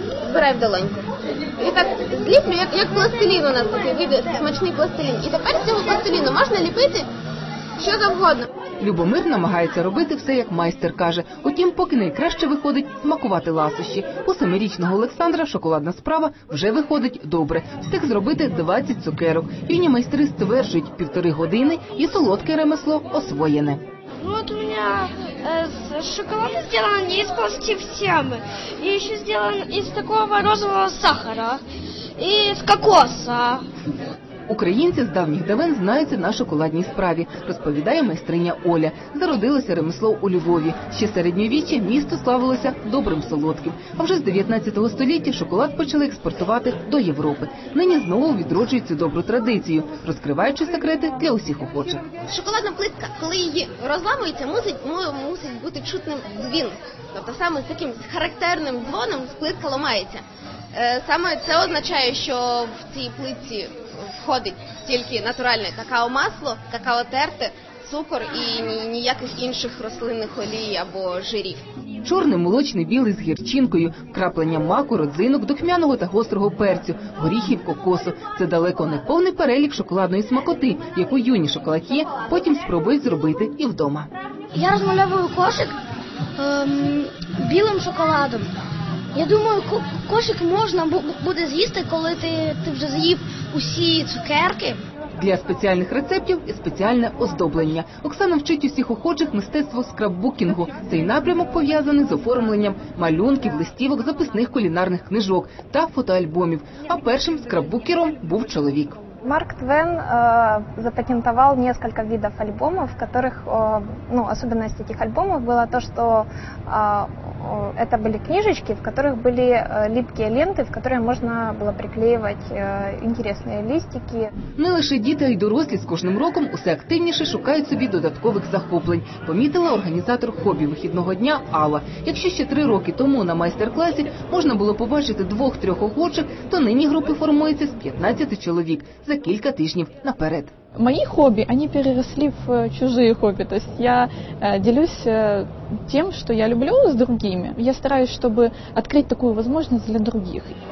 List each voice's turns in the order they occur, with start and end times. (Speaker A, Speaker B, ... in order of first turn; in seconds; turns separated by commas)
Speaker A: 0.2-1.0, Speaker A: 1.6-7.0, Speaker A: 7.8-8.5, Speaker B: 8.8-23.8, Speaker C: 24.2-31.6, Speaker C: 32.2-33.6, Speaker B: 34.5-52.0, Speaker A: 52.3-60.2, Speaker A: 60.7-71.6, Speaker B: 72.0-84.1, Speaker C: 84.5-85.8, Speaker C: 86.4-88.5, Speaker C: 89.1-94.8, Speaker B: 95.2-109.0, Speaker D: 109.2-124.2, Speaker B: 124.6-140.5, Speaker E: 140.8-150.6